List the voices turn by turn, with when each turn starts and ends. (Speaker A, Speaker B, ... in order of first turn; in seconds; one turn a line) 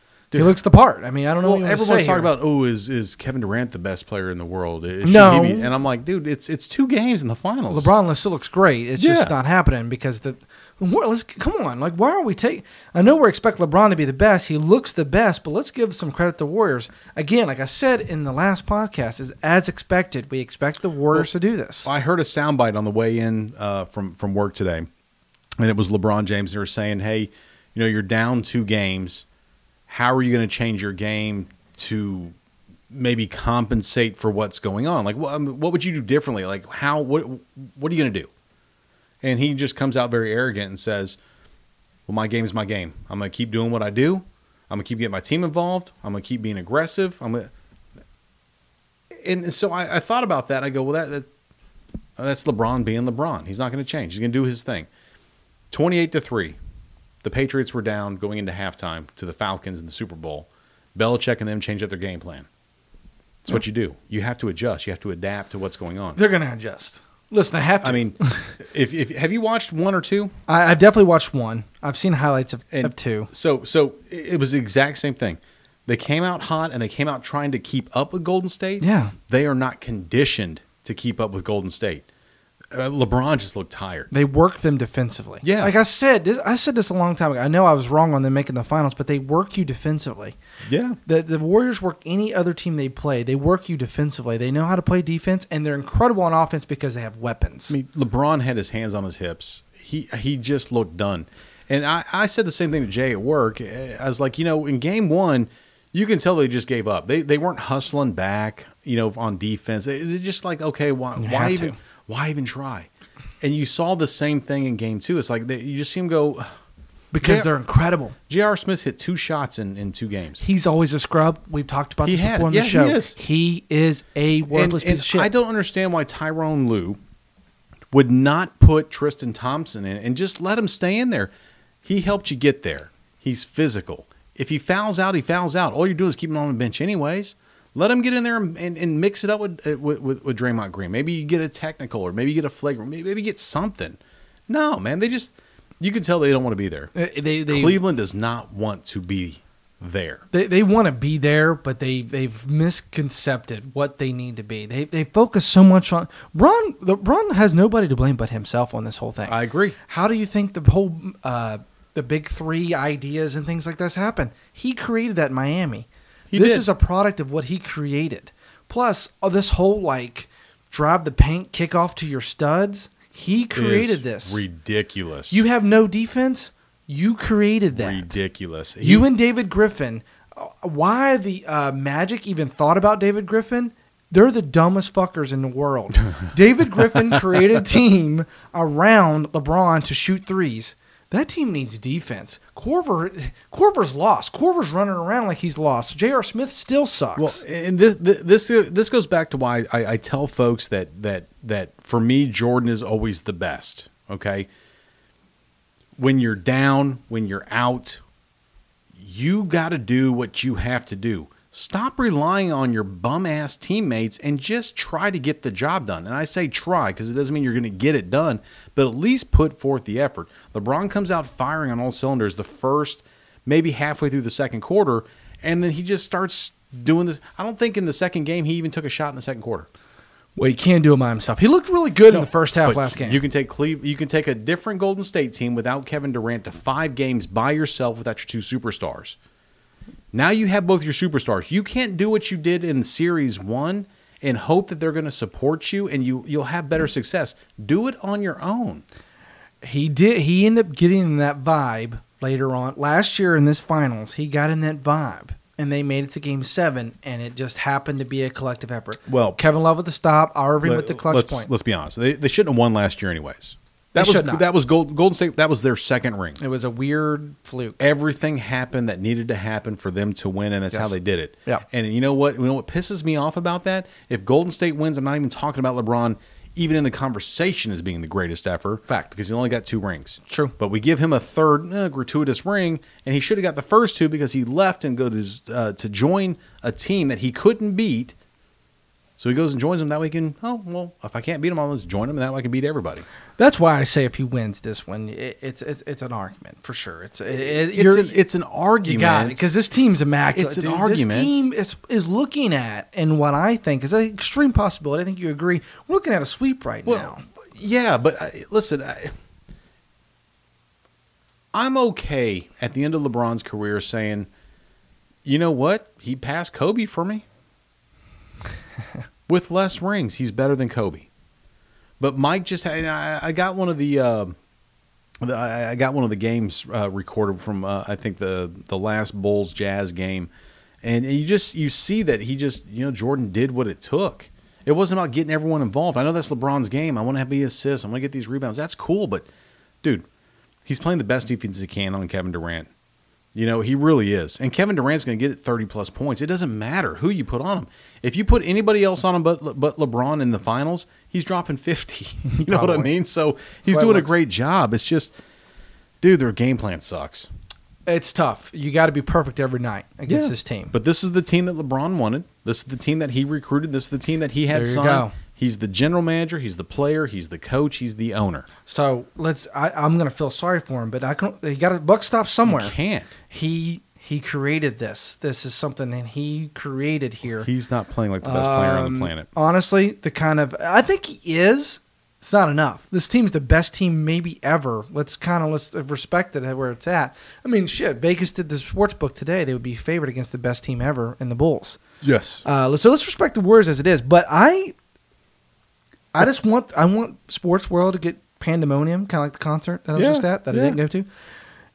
Speaker A: 0.3-2.3
Speaker B: 1.4-7.9
Speaker A: 5.0-5.7
Speaker A: 7.7-21.9
Speaker B: 9.0-9.3
Speaker B: 21.9-24.9
Speaker B: 25.6-29.2
Speaker B: 29.9-32.4
Speaker B: 32.9-38.3
Speaker B: 39.2-41.2
Speaker B: 42.1-47.5
Speaker B: 49.2-51.3
Speaker B: 52.2-54.9
Speaker B: 55.7-56.6
Speaker B: 57.2-62.5
Speaker B: 63.4-66.2
Speaker A: 66.2-68.5
Speaker B: 67.8-70.3
Speaker A: 70.5-73.3
Speaker B: 72.7-82.1
Speaker A: 78.8-79.2
Speaker B: 82.7-84.1
Speaker A: 84.1-90.3
Speaker B: 85.4-85.7
Speaker B: 90.7-91.0
Speaker A: 91.1-97.8
Speaker B: 97.7-112.9
Speaker A: 111.2-111.8
Speaker B: 113.4-116.5
Speaker A: 117.1-118.2
Speaker B: 117.2-117.5
Speaker B: 118.3-120.4
Speaker A: 120.4-125.3
Speaker B: 122.0-123.2
Speaker B: 124.5-127.0
Speaker B: 127.9-131.3
Speaker B: 131.8-146.9
Speaker A: 146.9-147.8
Speaker B: 147.5-150.2
Speaker A: 150.3-174.4
Speaker B: 159.3-159.8
Speaker B: 166.3-166.7
Speaker B: 173.6-175.4
Speaker A: 175.3-178.1
Speaker B: 177.7-179.1
Speaker A: 178.8-197.4
Speaker B: 197.2-204.5
Speaker B: 206.0-208.0
Speaker B: 208.9-229.7
Speaker A: 230.4-233.2
Speaker B: 232.1-239.2
Speaker B: 240.1-248.8
Speaker A: 249.6-261.5
Speaker B: 259.1-259.4
Speaker B: 260.6-266.4
Speaker A: 263.9-264.4
Speaker A: 266.4-267.8
Speaker B: 267.8-288.1
Speaker A: 280.3-280.5
Speaker B: 289.2-293.1
Speaker A: 293.4-298.2
Speaker B: 297.4-299.5
Speaker A: 298.8-307.2
Speaker B: 300.3-301.4
Speaker B: 306.9-309.2
Speaker B: 311.5-314.3
Speaker B: 315.2-317.2
Speaker B: 319.3-321.1
Speaker B: 322.0-324.4
Speaker B: 325.2-330.3
Speaker B: 330.8-339.3
Speaker B: 340.7-342.7
Speaker B: 343.3-355.1
Speaker A: 352.3-352.9
Speaker A: 353.6-354.2
Speaker B: 356.0-357.3
Speaker A: 357.9-360.7
Speaker B: 360.1-368.5
Speaker A: 364.5-365.1
Speaker A: 368.7-372.7
Speaker B: 372.4-373.1
Speaker A: 373.3-377.5
Speaker B: 377.4-379.3
Speaker A: 378.2-391.8
Speaker B: 392.0-392.4
Speaker A: 392.4-394.8
Speaker A: 396.1-401.1
Speaker B: 400.0-400.8